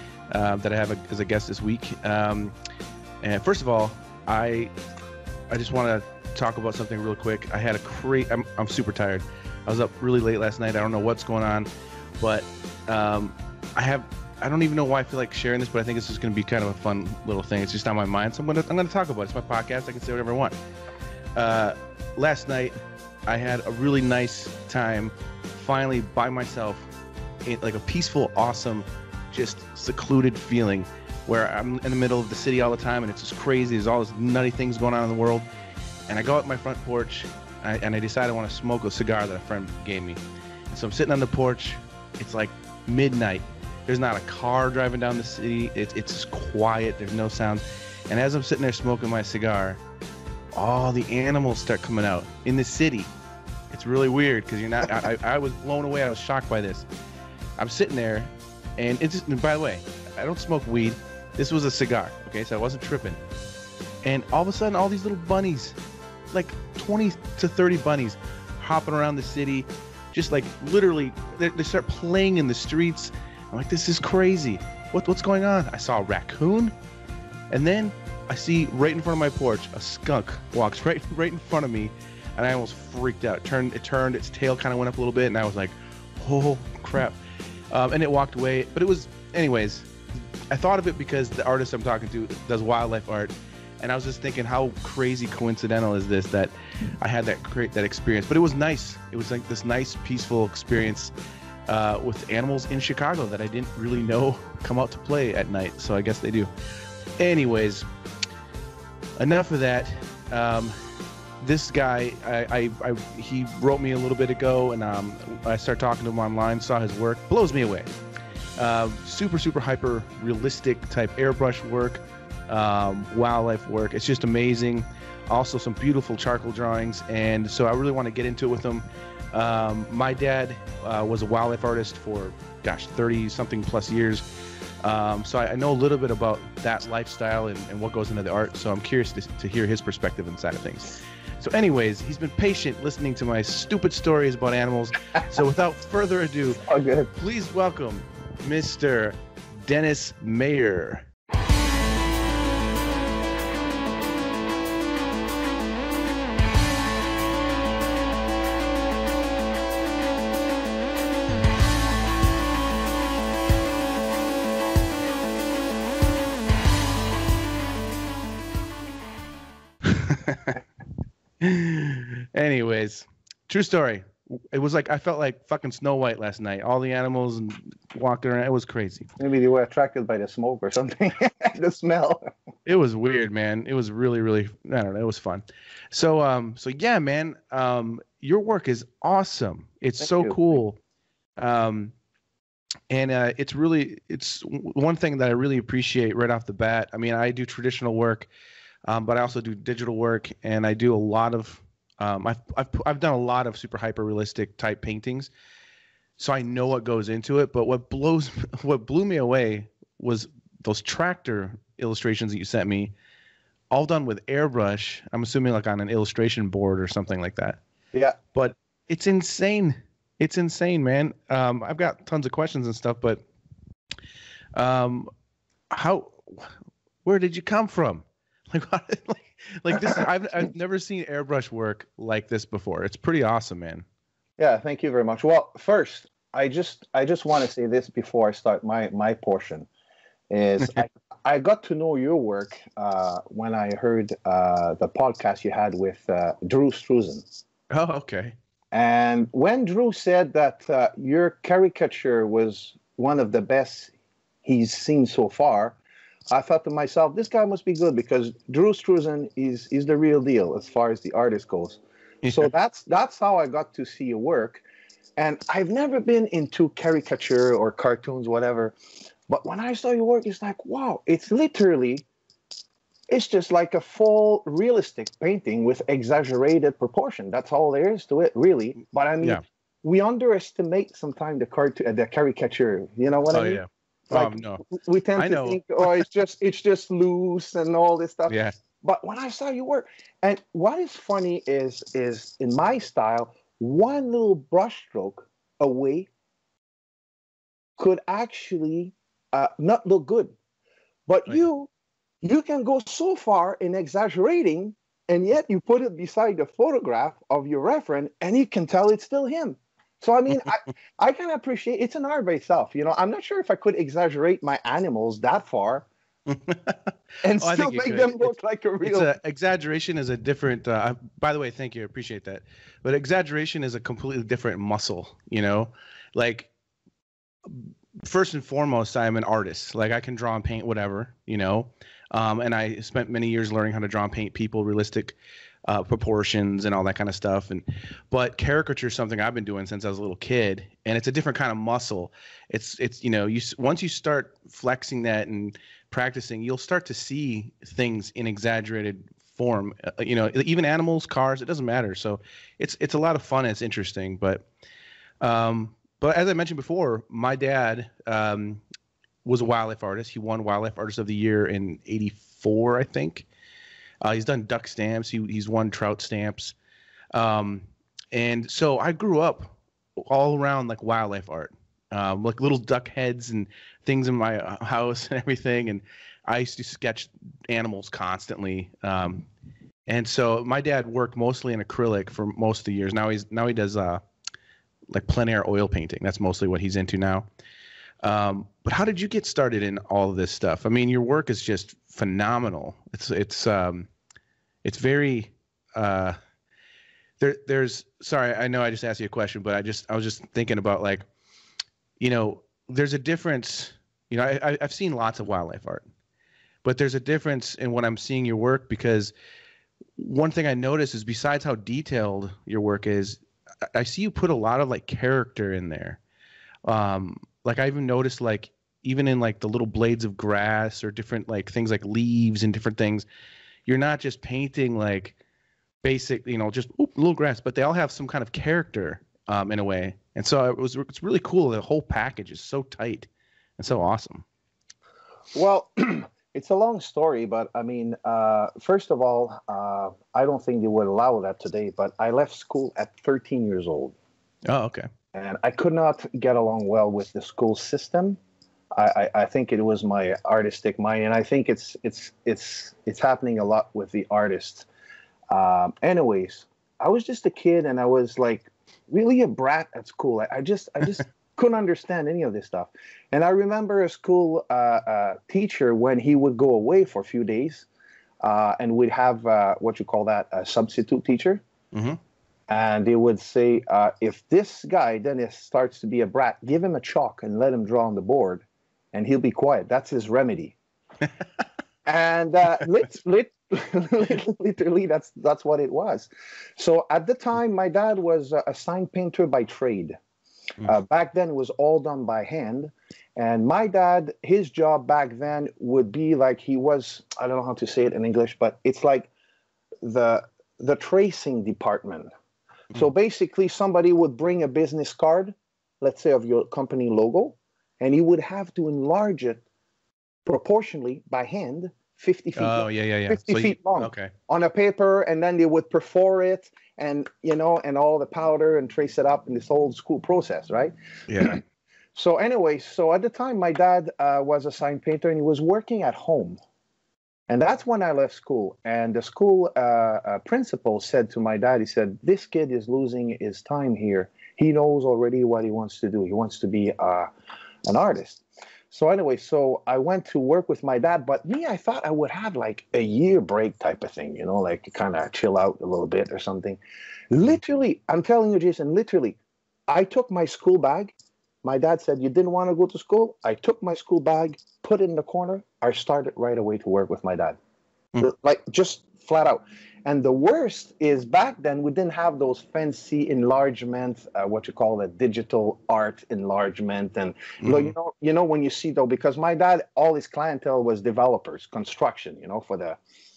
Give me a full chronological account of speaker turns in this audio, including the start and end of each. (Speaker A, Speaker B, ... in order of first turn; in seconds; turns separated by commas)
Speaker A: 0.3-2.5, Speaker A: 3.2-4.7, Speaker A: 5.5-11.7, Speaker A: 12.2-20.6, Speaker A: 21.4-22.8, Speaker A: 23.3-26.9, Speaker A: 27.4-35.5, Speaker A: 36.1-49.8, Speaker A: 50.5-53.1, Speaker A: 53.7-56.9, Speaker A: 57.6-63.2, Speaker A: 64.0-65.8, Speaker A: 66.3-76.7, Speaker A: 77.5-87.2, Speaker A: 87.7-89.9, Speaker A: 90.5-101.1, Speaker A: 101.7-106.5, Speaker A: 107.2-107.9, Speaker A: 109.2-110.8, Speaker A: 111.4-117.9, Speaker A: 118.6-134.2, Speaker A: 134.8-146.6, Speaker B: 146.6-147.1, Speaker A: 147.2-151.1, Speaker A: 169.8-170.6, Speaker A: 171.4-179.1, Speaker B: 179.2-182.3, Speaker A: 182.7-190.8, Speaker B: 190.0-190.4, Speaker A: 191.4-191.9, Speaker A: 192.9-198.3, Speaker A: 198.9-205.3, Speaker A: 206.2-212.9, Speaker A: 213.7-217.6, Speaker A: 218.3-223.2, Speaker A: 224.6-225.1, Speaker A: 225.7-226.5, Speaker A: 227.1-233.8, Speaker B: 234.4-239.7, Speaker B: 240.3-247.2, Speaker A: 247.7-248.4, Speaker B: 248.7-253.9, Speaker B: 254.4-255.8, Speaker B: 256.3-264.6, Speaker B: 265.2-268.8, Speaker B: 269.3-272.1, Speaker B: 273.1-296.1, Speaker A: 283.3-284.6, Speaker A: 285.2-286.0, Speaker A: 288.3-288.6, Speaker B: 297.8-300.4, Speaker B: 301.1-301.7, Speaker B: 302.2-315.9, Speaker A: 316.3-326.5, Speaker B: 317.2-319.1, Speaker A: 327.5-335.1, Speaker A: 335.7-354.5, Speaker A: 355.2-358.6, Speaker A: 359.2-363.3, Speaker A: 364.0-366.6, Speaker A: 367.1-379.3, Speaker A: 379.9-384.0, Speaker A: 384.9-387.3, Speaker A: 388.0-393.9, Speaker A: 394.6-396.2, Speaker A: 397.2-401.1, Speaker A: 402.0-405.9, Speaker A: 406.6-409.1, Speaker A: 410.0-413.2, Speaker A: 413.7-416.0, Speaker A: 416.6-423.1, Speaker A: 423.7-425.1, Speaker A: 425.8-433.1, Speaker A: 433.6-434.2, Speaker B: 435.3-443.9, Speaker A: 444.5-444.9, Speaker B: 445.1-448.2, Speaker B: 448.7-454.7, Speaker B: 455.3-467.7, Speaker B: 468.2-471.4, Speaker A: 471.7-472.0, Speaker B: 472.5-480.6, Speaker B: 481.9-490.0, Speaker B: 490.6-499.1, Speaker B: 499.8-502.1, Speaker B: 502.7-509.4, Speaker B: 510.3-521.4, Speaker A: 512.4-514.1, Speaker A: 521.1-521.4, Speaker B: 522.0-526.4, Speaker B: 527.3-537.1, Speaker B: 537.7-546.6, Speaker B: 547.1-549.2, Speaker B: 549.7-557.4, Speaker B: 558.0-572.8, Speaker A: 567.4-567.7